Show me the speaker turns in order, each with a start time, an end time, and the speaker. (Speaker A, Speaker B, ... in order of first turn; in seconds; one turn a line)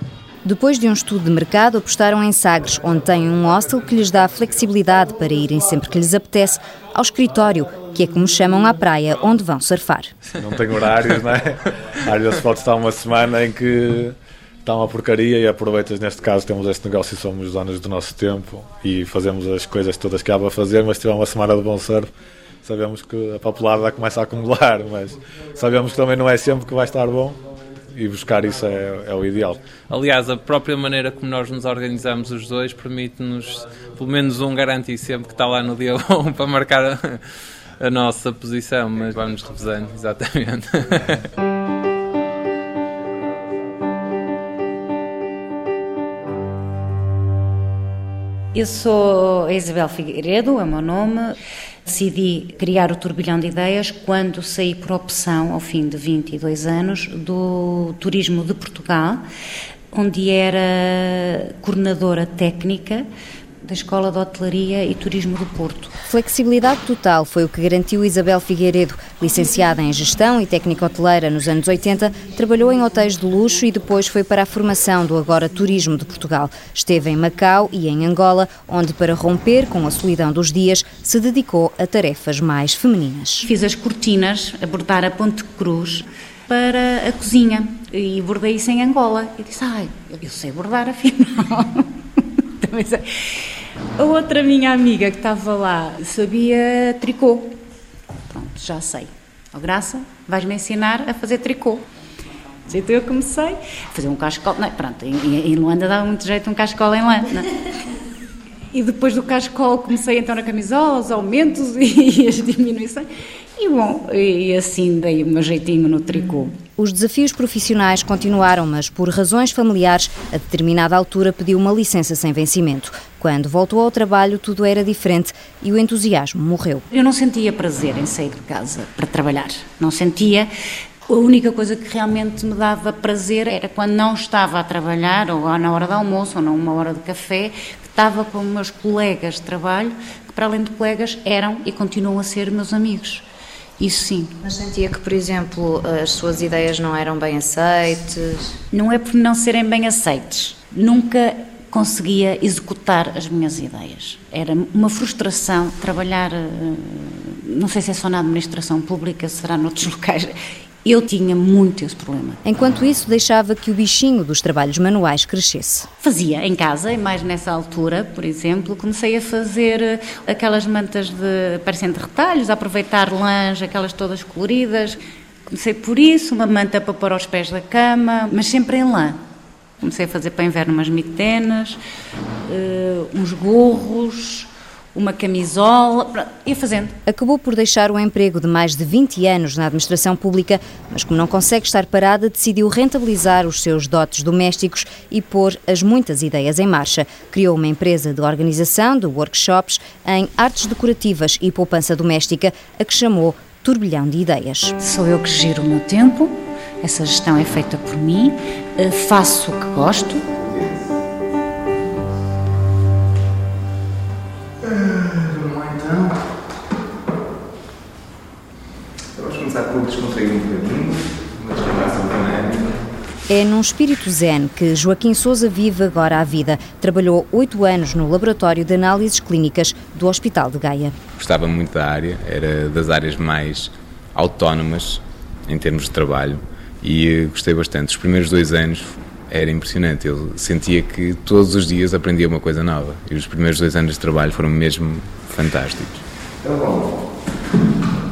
Speaker A: 0.4-10.1
Speaker B: 10.4-22.1
Speaker B: 22.6-27.4
Speaker B: 27.9-29.6
Speaker C: 29.9-37.2
Speaker C: 37.8-41.2
Speaker D: 48.5-59.2
Speaker D: 59.9-63.1
Speaker D: 63.6-65.9
Speaker A: 66.1-83.5
Speaker D: 83.4-91.9
Speaker D: 92.6-93.5
Speaker D: 94.0-97.6
Speaker D: 98.3-101.8
Speaker D: 102.7-107.5
Speaker D: 108.7-116.6
Speaker A: 116.8-126.8
Speaker D: 126.9-130.5
Speaker D: 131.1-143.2
Speaker D: 143.8-144.4
Speaker E: 144.4-148.5
Speaker D: 148.7-162.4
Speaker A: 162.4-165.9
Speaker D: 166.0-179.2
Speaker D: 179.8-181.8
Speaker D: 182.4-186.9
Speaker A: 187.1-204.8
Speaker D: 204.8-210.2
Speaker F: 210.4-210.9
Speaker F: 214.6-216.2
Speaker F: 219.2-222.8
Speaker A: 223.3-230.9
Speaker F: 231.2-246.9